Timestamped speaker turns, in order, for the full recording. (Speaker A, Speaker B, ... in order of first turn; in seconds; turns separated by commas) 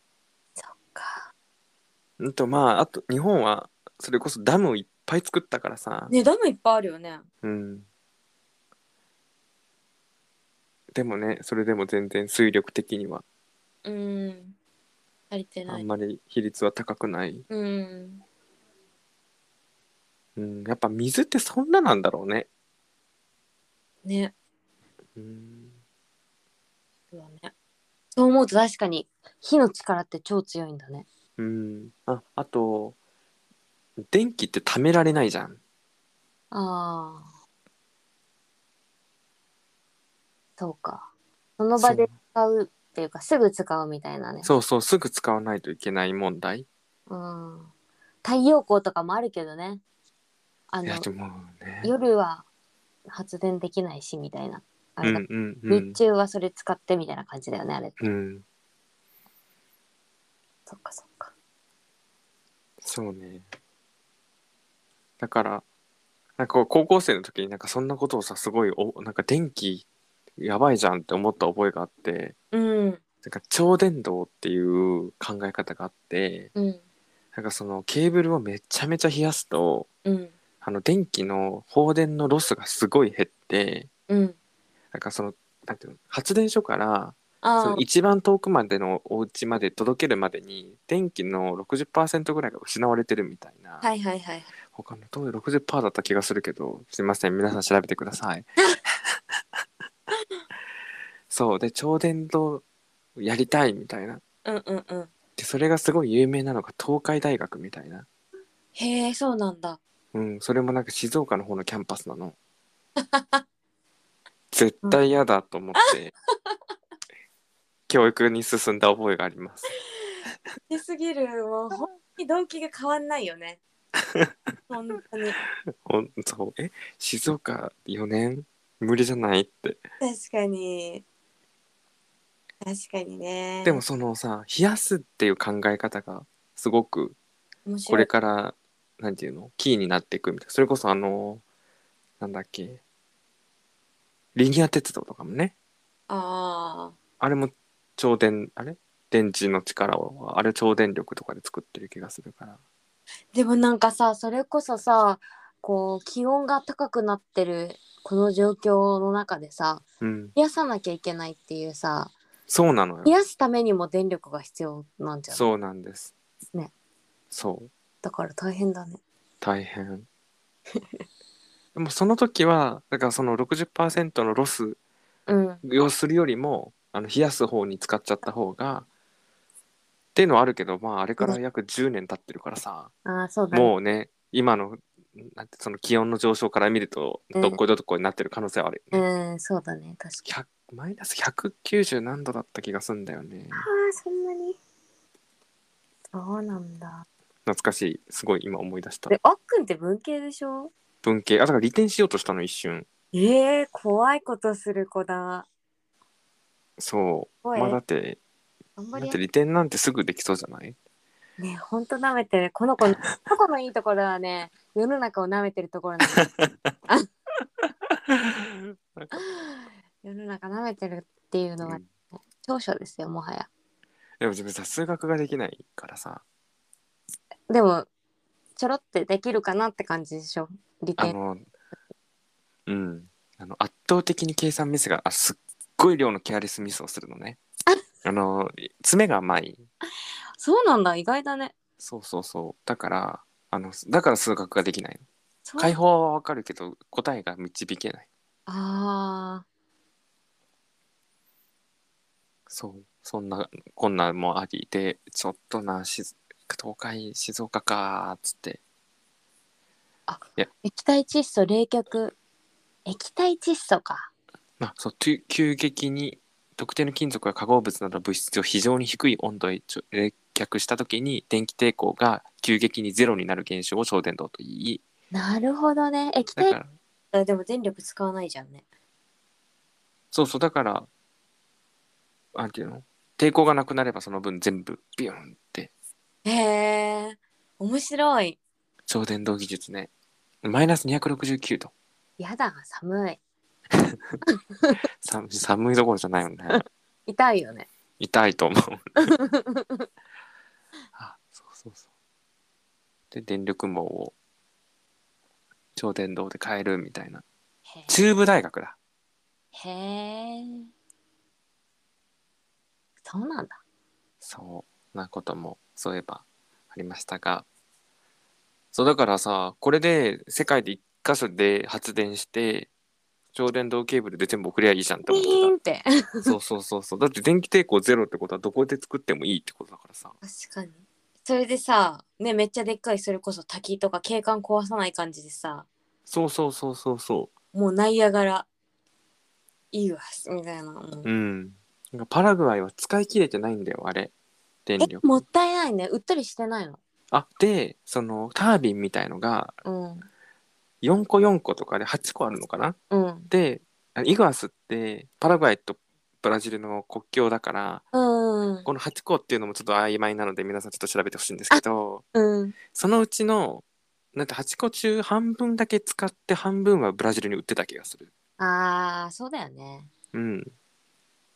Speaker A: 0.6-1.3, Speaker B: 2.2-6.1, Speaker A: 6.1-7.2, Speaker B: 7.4-7.8, Speaker B: 10.9-13.2, Speaker A: 13.8-14.5, Speaker A: 15.3-15.8, Speaker B: 15.7-17.4, Speaker A: 17.5-18.2, Speaker B: 20.4-22.5, Speaker A: 24.0-24.3, Speaker B: 25.1-25.7, Speaker A: 27.1-27.5, Speaker A: 28.1-31.1, Speaker B: 31.4-33.0, Speaker B: 34.0-35.6, Speaker A: 36.5-37.3, Speaker A: 40.6-44.5, Speaker B: 41.8-42.1, Speaker B: 44.4-46.7, Speaker A: 47.1-47.7, Speaker A: 48.2-49.8, Speaker A: 50.7-51.0, Speaker B: 50.8-51.9, Speaker A: 51.8-52.4, Speaker A: 53.1-58.0, Speaker B: 55.0-56.0, Speaker B: 58.0-58.4, Speaker A: 60.7-61.3, Speaker B: 62.8-63.5, Speaker B: 65.2-65.6, Speaker B: 66.4-69.8, Speaker B: 70.4-72.3, Speaker A: 72.5-73.0, Speaker B: 73.2-76.5, Speaker A: 76.5-76.8, Speaker B: 77.3-79.9, Speaker A: 80.0-80.3, Speaker B: 80.6-83.9, Speaker A: 84.1-84.3, Speaker B: 84.9-93.8, Speaker A: 87.4-87.8, Speaker A: 93.8-94.5, Speaker B: 94.7-98.5, Speaker B: 101.3-102.6, Speaker B: 103.2-104.2, Speaker A: 104.4-105.1, Speaker B: 105.4-108.1, Speaker A: 108.7-109.8, Speaker B: 110.1-112.3, Speaker A: 113.0-113.4, Speaker B: 114.5-116.1, Speaker B: 117.9-119.7, Speaker A: 120.7-123.6, Speaker A: 124.7-125.4, Speaker B: 125.8-129.8, Speaker A: 130.0-131.0, Speaker A: 132.6-133.8, Speaker B: 133.6-137.2, Speaker A: 137.7-138.1, Speaker B: 137.9-141.4, Speaker B: 142.2-142.8, Speaker B: 144.3-145.5, Speaker A: 146.1-146.9, Speaker B: 147.2-152.6, Speaker A: 153.3-159.8, Speaker B: 160.0-160.3, Speaker A: 160.3-162.1, Speaker B: 162.5-163.1, Speaker A: 163.0-165.4, Speaker B: 165.3-166.1, Speaker B: 167.3-167.7, Speaker A: 168.0-169.0, Speaker B: 169.4-170.1, Speaker B: 171.7-174.8, Speaker A: 175.3-175.6, Speaker B: 175.6-178.9, Speaker B: 180.1-182.9, Speaker A: 183.0-183.7, Speaker B: 183.5-189.0, Speaker A: 188.9-190.3, Speaker B: 190.2-193.7, Speaker A: 193.5-194.6, Speaker A: 196.1-197.1, Speaker B: 197.4-199.2, Speaker A: 199.1-200.7, Speaker B: 201.0-202.8, Speaker A: 203.1-205.5, Speaker B: 206.8-208.2, Speaker A: 207.4-207.8, Speaker A: 208.8-209.2, Speaker B: 208.9-210.8, Speaker A: 211.4-216.3, Speaker B: 216.2-216.7, Speaker B: 218.1-219.1, Speaker A: 219.1-223.5, Speaker B: 224.2-226.2, Speaker A: 227.5-227.9, Speaker A: 228.6-231.2, Speaker B: 231.0-231.5, Speaker B: 232.7-237.4, Speaker B: 238.0-239.6, Speaker A: 240.4-241.5, Speaker B: 241.8-245.0, Speaker A: 245.4-245.8, Speaker B: 245.6-248.1, Speaker A: 248.5-249.4, Speaker B: 252.5-258.6, Speaker A: 260.1-262.1, Speaker A: 262.9-264.1, Speaker B: 264.6-274.8, Speaker A: 275.1-276.6, Speaker B: 276.4-276.7, Speaker A: 277.1-278.6, Speaker B: 280.1-280.9, Speaker B: 282.3-285.7, Speaker A: 286.2-288.4, Speaker B: 288.9-289.9, Speaker B: 290.4-291.7, Speaker A: 292.2-293.2, Speaker B: 293.8-294.2, Speaker B: 295.0-296.6, Speaker A: 296.5-297.7, Speaker B: 298.0-299.1, Speaker A: 299.0-299.9, Speaker B: 301.0-301.8, Speaker B: 303.1-304.1, Speaker B: 305.8-307.2, Speaker A: 307.7-308.0, Speaker B: 307.9-308.8, Speaker A: 309.5-310.7, Speaker A: 313.1-313.6, Speaker B: 314.2-317.4, Speaker B: 318.7-322.7, Speaker B: 323.3-325.5, Speaker A: 325.1-326.3, Speaker B: 326.2-330.1, Speaker A: 330.2-335.7, Speaker B: 336.1-337.3, Speaker A: 337.5-338.5, Speaker A: 339.7-341.1, Speaker B: 341.0-344.1, Speaker B: 344.6-345.2, Speaker A: 344.8-346.8, Speaker B: 347.1-349.6, Speaker A: 349.6-350.1, Speaker B: 350.8-352.8, Speaker A: 352.9-353.3, Speaker B: 353.3-357.8, Speaker A: 357.9-358.7, Speaker B: 358.6-362.0, Speaker A: 362.1-362.6, Speaker B: 362.7-363.6, Speaker B: 364.1-368.1, Speaker A: 368.4-369.9, Speaker B: 370.1-370.5